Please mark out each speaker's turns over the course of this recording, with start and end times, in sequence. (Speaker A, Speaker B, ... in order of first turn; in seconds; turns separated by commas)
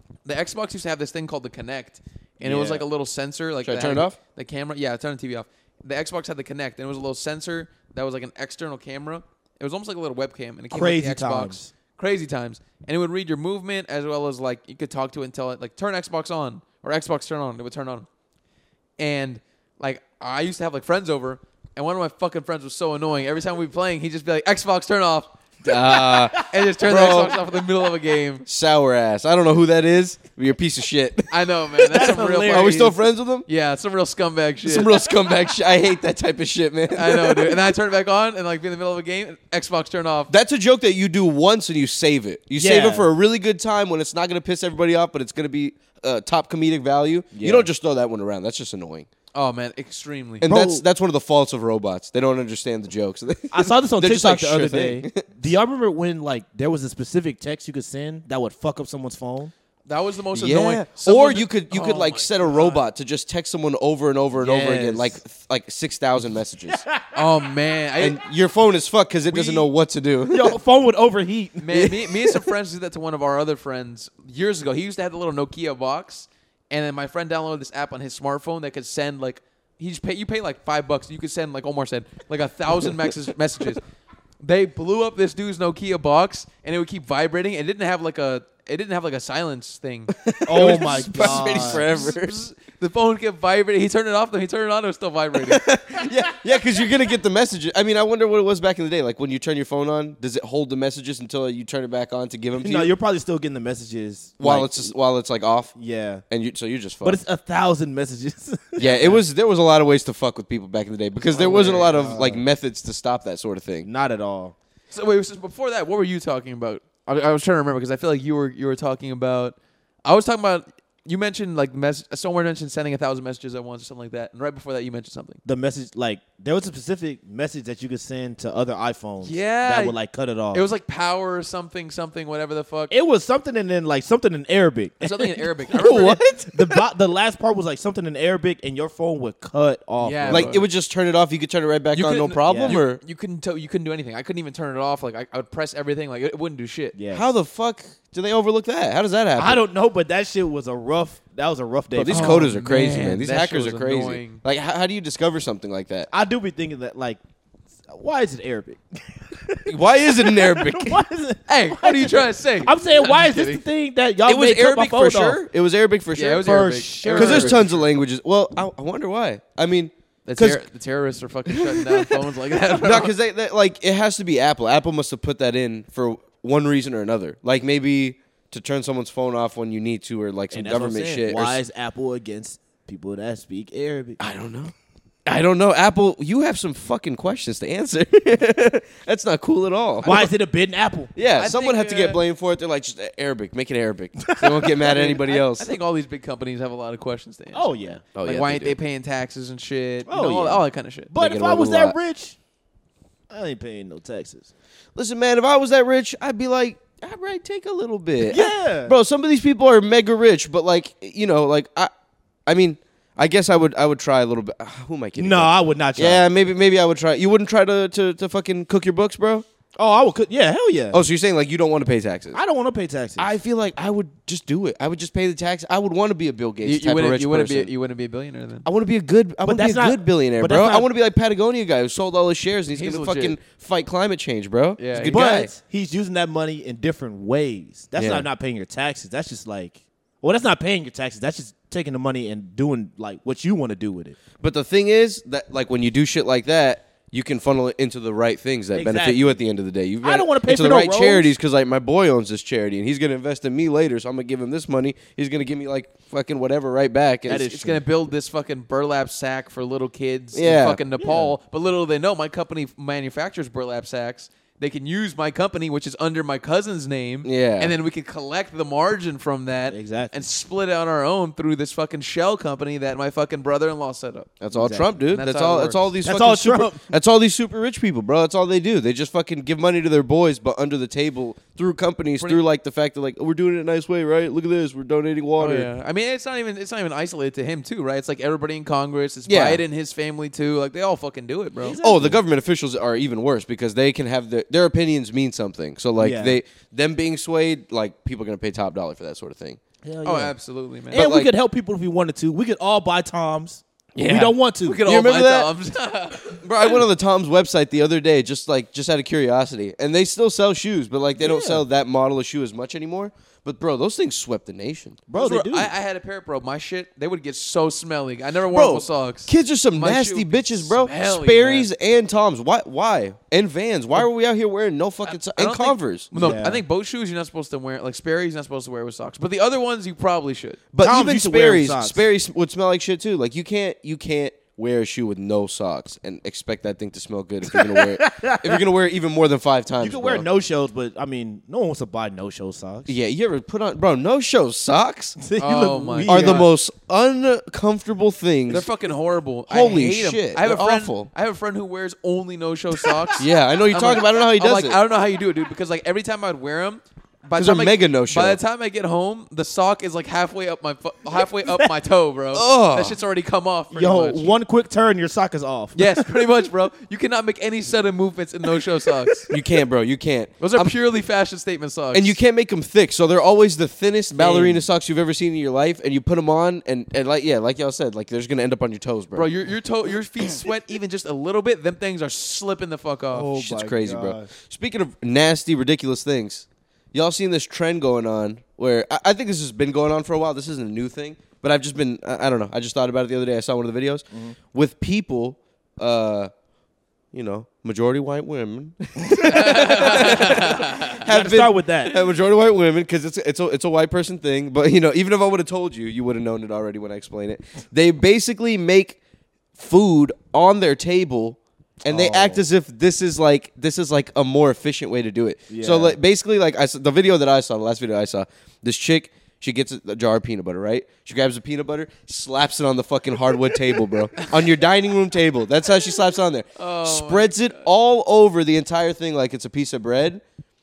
Speaker A: 0.2-18.1, Speaker B: 2.4-2.8, Speaker C: 3.6-4.2, Speaker B: 10.7-11.7, Speaker A: 19.0-28.4, Speaker C: 25.6-27.4, Speaker C: 28.4-33.5, Speaker A: 31.3-35.0, Speaker B: 31.9-32.9, Speaker C: 34.6-37.6, Speaker A: 36.9-40.3, Speaker C: 40.3-49.1, Speaker B: 42.6-43.1, Speaker B: 47.3-47.7, Speaker A: 49.3-50.5, Speaker C: 50.4-55.3, Speaker B: 50.5-50.8, Speaker B: 53.5-59.5, Speaker A: 59.9-62.8, Speaker C: 60.4-66.8, Speaker B: 64.4-65.2, Speaker B: 66.7-67.2, Speaker A: 67.1-68.2, Speaker C: 68.0-70.6, Speaker A: 69.3-69.7, Speaker B: 70.3-71.7, Speaker A: 71.6-83.8, Speaker C: 71.7-72.4, Speaker A: 84.4-95.7, Speaker C: 90.2-92.4, Speaker B: 90.5-91.9, Speaker C: 95.5-102.9, Speaker B: 102.6-104.9, Speaker C: 104.4-105.7, Speaker B: 105.8-106.2, Speaker C: 106.3-107.2, Speaker B: 107.0-109.2, Speaker C: 108.8-113.9, Speaker B: 111.3-112.4, Speaker A: 111.4-111.8, Speaker B: 113.8-114.5, Speaker A: 114.9-125.4, Speaker B: 125.5-130.7, Speaker A: 129.2-130.0, Speaker A: 130.5-132.9, Speaker B: 132.9-135.5, Speaker A: 135.0-136.2, Speaker C: 135.7-136.8, Speaker B: 136.5-140.6, Speaker A: 140.0-140.7, Speaker C: 140.3-143.0, Speaker A: 141.9-146.9, Speaker B: 142.5-142.8, Speaker B: 146.9-147.3, Speaker C: 147.1-149.6, Speaker B: 149.4-152.5, Speaker C: 151.9-156.1, Speaker A: 152.1-154.4, Speaker B: 156.1-157.2, Speaker B: 157.9-165.4, Speaker C: 159.7-161.0, Speaker A: 159.8-160.9, Speaker A: 161.5-163.6, Speaker C: 164.3-166.6, Speaker A: 166.1-167.6, Speaker B: 166.4-167.9, Speaker C: 167.1-170.6, Speaker A: 170.3-173.1, Speaker C: 171.5-181.6, Speaker B: 180.5-184.2, Speaker C: 184.2-184.7, Speaker C: 185.3-190.1, Speaker A: 190.0-190.3, Speaker B: 190.0-191.1, Speaker C: 191.2-195.7, Speaker A: 191.4-192.2, Speaker B: 194.3-195.0, Speaker A: 194.9-201.1, Speaker B: 197.5-198.0, Speaker C: 198.1-198.8, Speaker B: 200.1-202.4, Speaker C: 201.2-201.9, Speaker B: 203.3-204.5, Speaker C: 204.9-211.9, Speaker B: 208.3-208.9, Speaker C: 212.5-219.4, Speaker B: 215.2-216.2, Speaker B: 219.8-221.0, Speaker C: 220.9-222.4, Speaker B: 222.3-223.3, Speaker C: 223.2-227.7, Speaker A: 226.6-228.7, Speaker C: 228.6-235.5, Speaker B: 229.4-230.9, Speaker A: 232.7-233.4, Speaker A: 234.8-235.2, Speaker B: 235.0-244.2, Speaker C: 237.9-238.3, Speaker C: 244.4-257.5, Speaker B: 248.7-249.4, Speaker B: 250.0-251.3, Speaker B: 257.3-257.8, Speaker A: 257.3-274.3, Speaker C: 260.4-260.8, Speaker B: 261.0-261.4, Speaker C: 267.2-267.7, Speaker B: 269.7-270.2, Speaker C: 274.4-285.7, Speaker B: 274.5-274.9, Speaker A: 275.1-275.9, Speaker B: 276.0-276.8, Speaker A: 285.4-291.8, Speaker C: 289.3-289.6, Speaker B: 291.6-292.2, Speaker C: 291.8-299.6, Speaker B: 296.0-296.4, Speaker B: 299.9-300.3, Speaker A: 300.0-301.1, Speaker B: 300.9-304.8, Speaker C: 300.9-301.3, Speaker C: 303.9-305.5, Speaker A: 304.6-306.8, Speaker C: 306.4-315.0, Speaker B: 311.2-311.6, Speaker B: 315.1-315.7, Speaker A: 315.2-321.7, Speaker C: 318.5-326.4, Speaker A: 325.1-330.6, Speaker B: 326.1-326.6, Speaker C: 330.7-340.2, Speaker B: 330.8-332.0, Speaker B: 337.5-338.6, Speaker B: 339.8-342.9, Speaker C: 342.9-345.2, Speaker B: 345.2-346.5, Speaker A: 345.4-346.5, Speaker C: 346.1-348.7, Speaker A: 348.5-364.3, Speaker C: 349.5-351.1, Speaker B: 352.8-353.1, Speaker C: 353.2-354.8, Speaker C: 357.4-358.4, Speaker C: 362.3-363.0, Speaker B: 363.7-366.1, Speaker A: 365.7-369.3, Speaker C: 369.3-370.7, Speaker A: 370.4-372.2, Speaker C: 371.9-379.3, Speaker A: 374.1-374.6, Speaker A: 379.1-383.3, Speaker B: 383.1-384.3, Speaker C: 383.3-396.3, Speaker C: 397.1-409.0, Speaker B: 399.1-400.5, Speaker A: 399.2-401.0, Speaker B: 401.0-402.0, Speaker C: 409.6-430.2, Speaker B: 411.9-412.4, Speaker B: 415.5-416.0, Speaker A: 426.6-427.7